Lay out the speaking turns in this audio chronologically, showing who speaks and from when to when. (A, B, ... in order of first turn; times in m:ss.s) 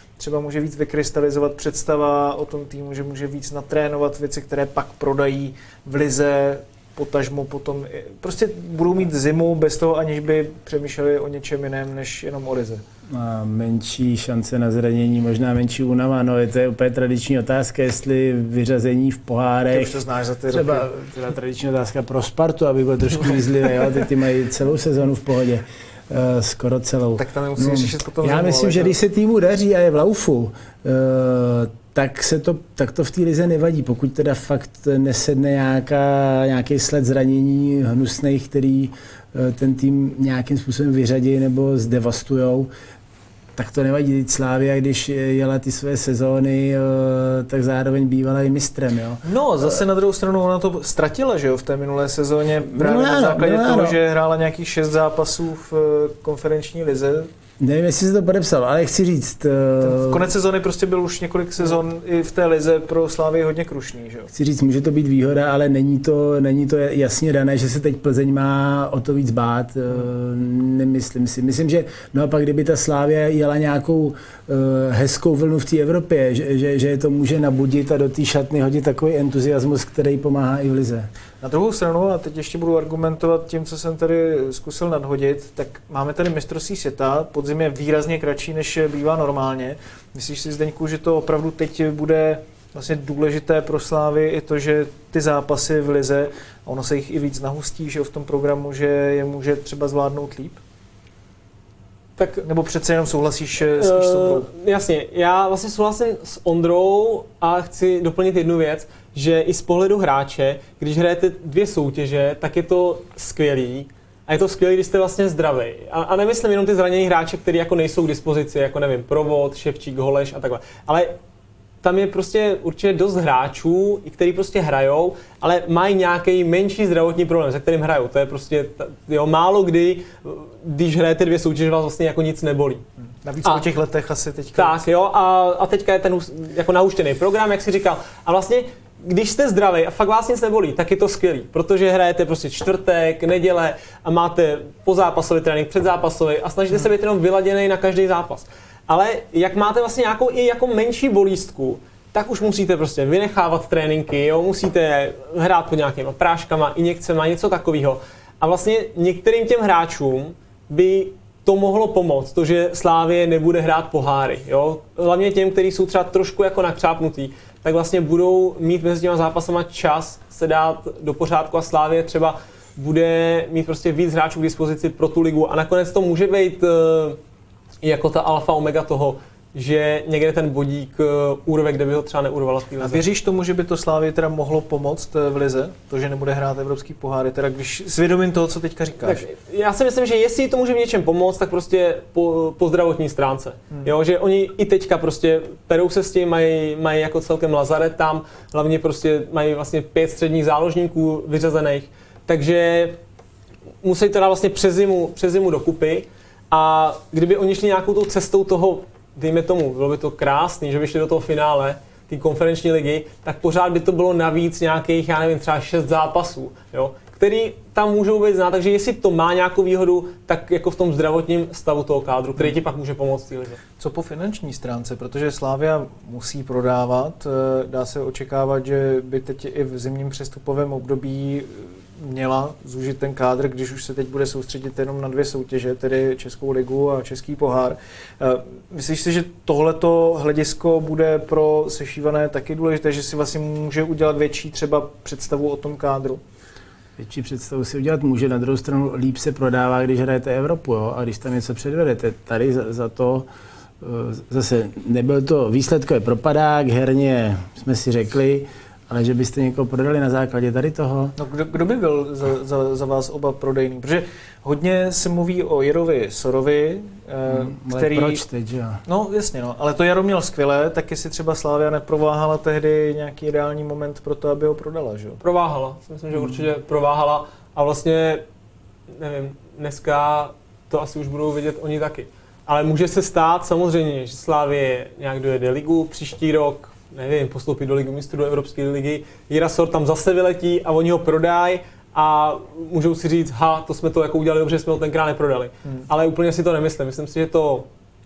0:00.2-0:12.8 A
0:13.1-0:20.0 B
0:19.7-0:20.9 A
0:20.5-0:42.7 B
0:27.2-0:29.0 A
0:43.6-0:49.8 B
0:49.2-0:57.3 A
0:52.6-0:54.0 B
0:57.6-1:00.3 B
0:59.8-1:04.3 A
1:04.3-1:21.1 B
1:21.4-1:40.6 A
1:42.2-1:42.5 C
1:42.4-1:44.5 A
1:43.8-2:01.2 C
2:01.8-2:12.8 C
2:13.2-2:14.8 A
2:14.6-2:57.2 C
2:57.8-3:03.0 C
3:02.8-3:09.2 A
3:09.0-3:23.0 C
3:23.8-3:43.6 C
3:43.8-4:06.2 A
4:07.0-4:13.3 B
4:13.8-4:21.2 B
4:21.2-4:28.2 A
4:27.3-4:28.8 B
4:28.9-4:35.2 A
4:35.2-4:38.2 C
4:38.9-4:57.7 C